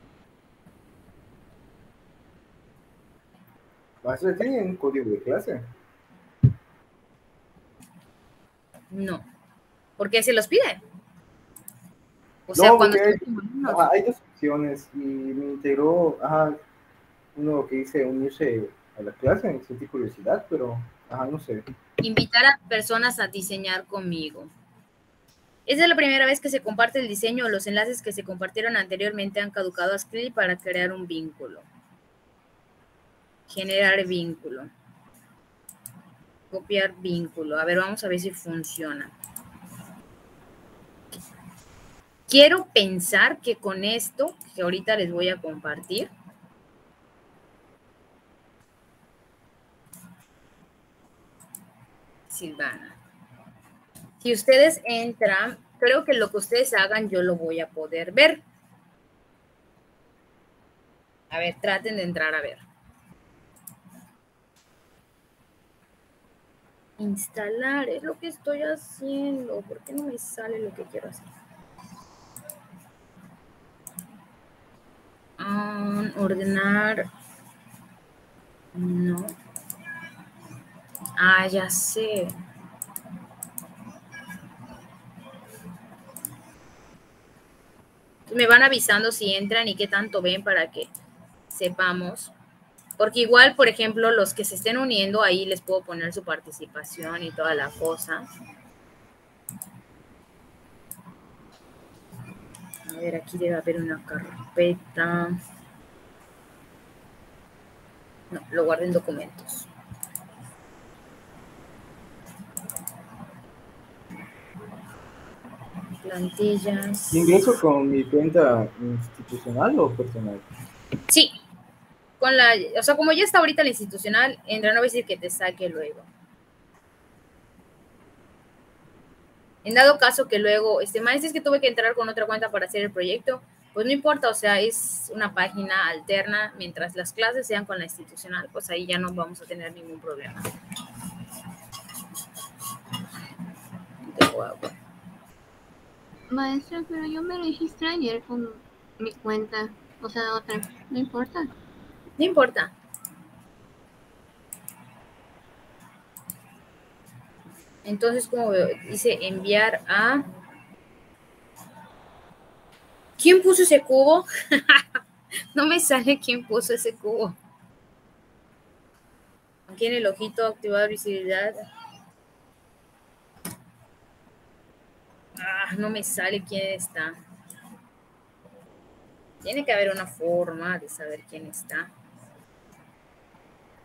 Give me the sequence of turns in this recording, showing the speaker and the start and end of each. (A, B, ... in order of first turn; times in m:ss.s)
0:04.0-0:05.7 A
0:08.9-0:09.3 B
0:10.0-0:10.8 B
0:12.5-0:13.9 B
0:12.6-0:16.6 A
0:17.4-0:21.6 A
0:22.0-0:24.5 B
0:25.7-0:31.7 B
0:33.5-0:34.7 B
0:36.5-0:39.1 B
0:42.3-0:46.1 B
0:52.3-0:53.0 B
0:54.2-0:58.4 B
1:01.3-1:02.6 B
1:07.0-1:11.3 B
1:15.4-1:17.1 B
1:18.7-1:19.4 B
1:21.2-1:22.4 B
1:28.3-1:30.9 B
1:31.5-1:32.3 B
1:33.0-1:38.2 B
1:42.9-1:45.4 B
1:48.3-1:49.7 B
1:56.0-1:57.5 B
1:57.1-2:00.4 A
2:01.1-2:01.4 B
2:02.2-2:06.1 B
2:09.6-2:20.4 B
2:24.1-2:24.8 B
2:26.3-2:31.5 C
2:32.2-2:32.7 B
2:37.8-2:40.2 B
2:43.2-2:44.8 B
2:45.6-2:47.4 B
2:49.7-2:51.6 B
2:55.4-2:57.2 B
2:59.4-3:01.9 B